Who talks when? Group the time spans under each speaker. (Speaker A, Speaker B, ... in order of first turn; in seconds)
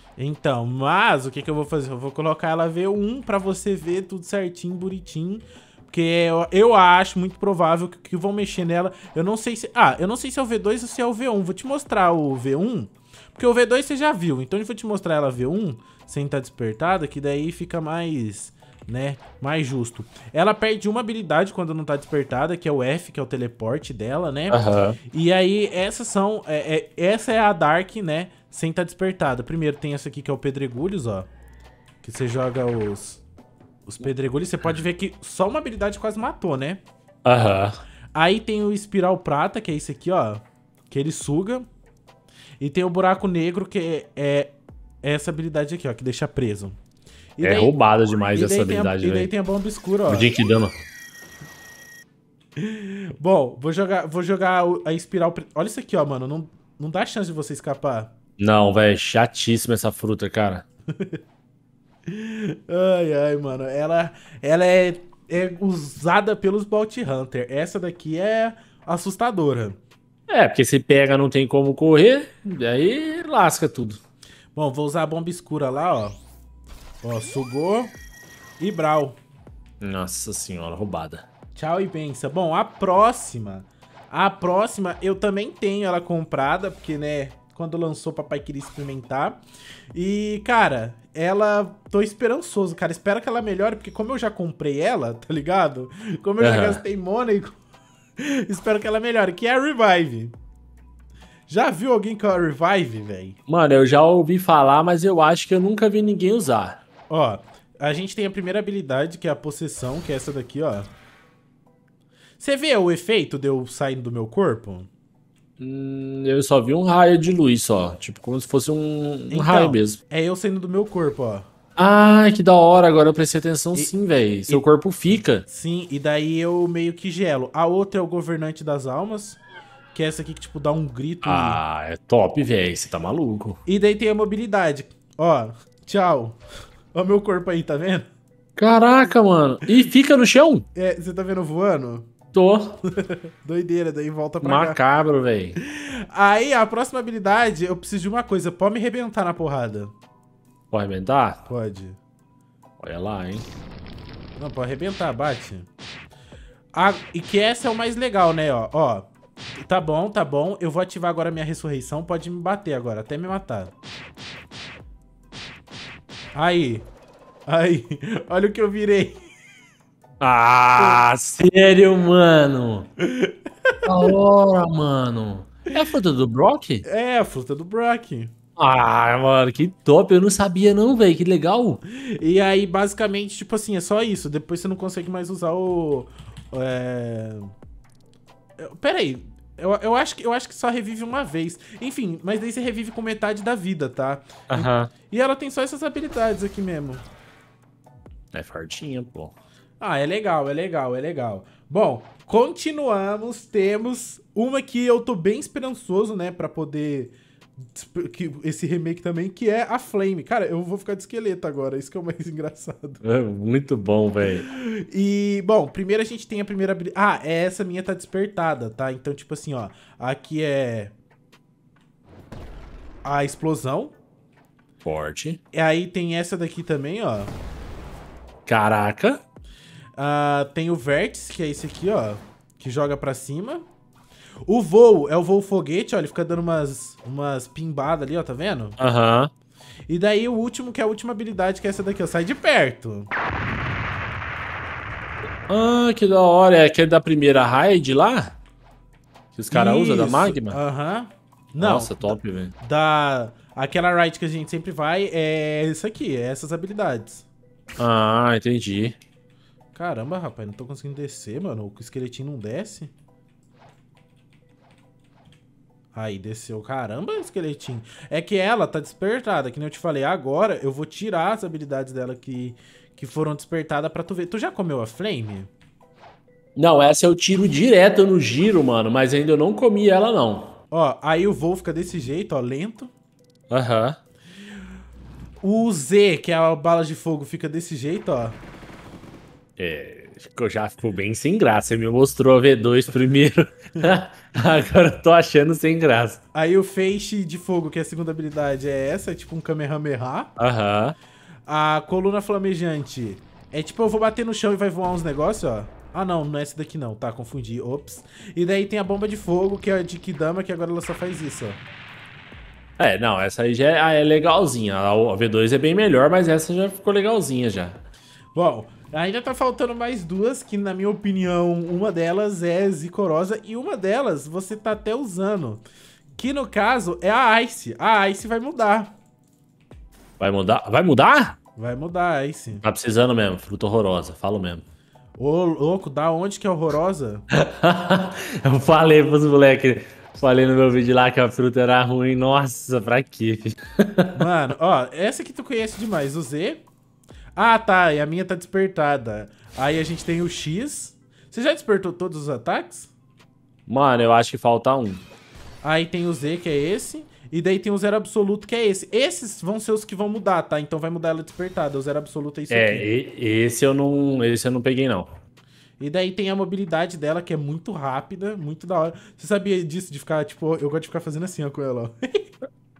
Speaker A: 0.2-31.3, 32.0-33.2, 33.9-36.8, 38.1-41.6, 42.6-46.8, 47.4-47.7, 48.3-50.4, 52.6-58.1, 62.1-69.8, 74.5-76.2, 77.0-77.9, 78.6-79.2, 81.5-89.4, 89.9-97.5, 98.2-100.3, 101.5-103.4, 107.1-110.9, 112.4-114.9, 119.3-121.5, 125.4-129.4, 129.9-131.6, 133.7-136.4, 136.9-138.1, 140.7-142.1, 142.9-144.8, 145.6-149.9, 151.4-152.0, 154.3-155.7, 156.7-159.1, 159.6-163.7, 166.3-166.9, 167.5-169.2, 173.0-174.1, 176.8-178.3, 181.9-187.5, 188.6-197.0, 199.8-207.1, 207.7-213.0, 214.3-220.9, 223.0-223.9, 225.5-227.3, 230.0-233.6, 234.5-238.8, 239.9-243.1, 249.5-257.2, 259.7-262.9, 265.9-275.5, 280.7-282.9, 285.4-288.4, 296.3-300.3, 301.5-311.6, 318.3-325.6, 326.2-328.9, 331.6-332.6, 335.2-337.2, 344.1-346.6, 347.4-352.9, 355.6-362.9, 365.8-372.3
Speaker B: 24.5-25.0, 37.2-37.8, 47.4-49.3, 50.1-50.7, 58.4-60.6, 70.3-74.0, 79.8-81.2, 96.4-96.8, 103.5-106.8, 115.6-120.0, 121.8-125.4, 131.2-133.6, 138.6-140.7, 142.3-142.8, 144.4-145.6, 150.7-151.4, 152.8-153.4, 170.2-172.9, 173.8-176.8, 178.6-181.8, 194.5-194.9, 198.3-199.3, 213.0-214.5, 224.8-225.4, 228.4-229.2, 238.8-239.3, 245.5-248.3, 249.3-250.6, 251.6-252.5, 257.8-259.0, 276.6-280.6, 283.5-284.0, 289.6-296.2, 300.4-300.9, 312.8-317.8, 330.2-331.4, 332.6-334.6, 337.3-344.2, 353.7-355.0, 362.5-365.1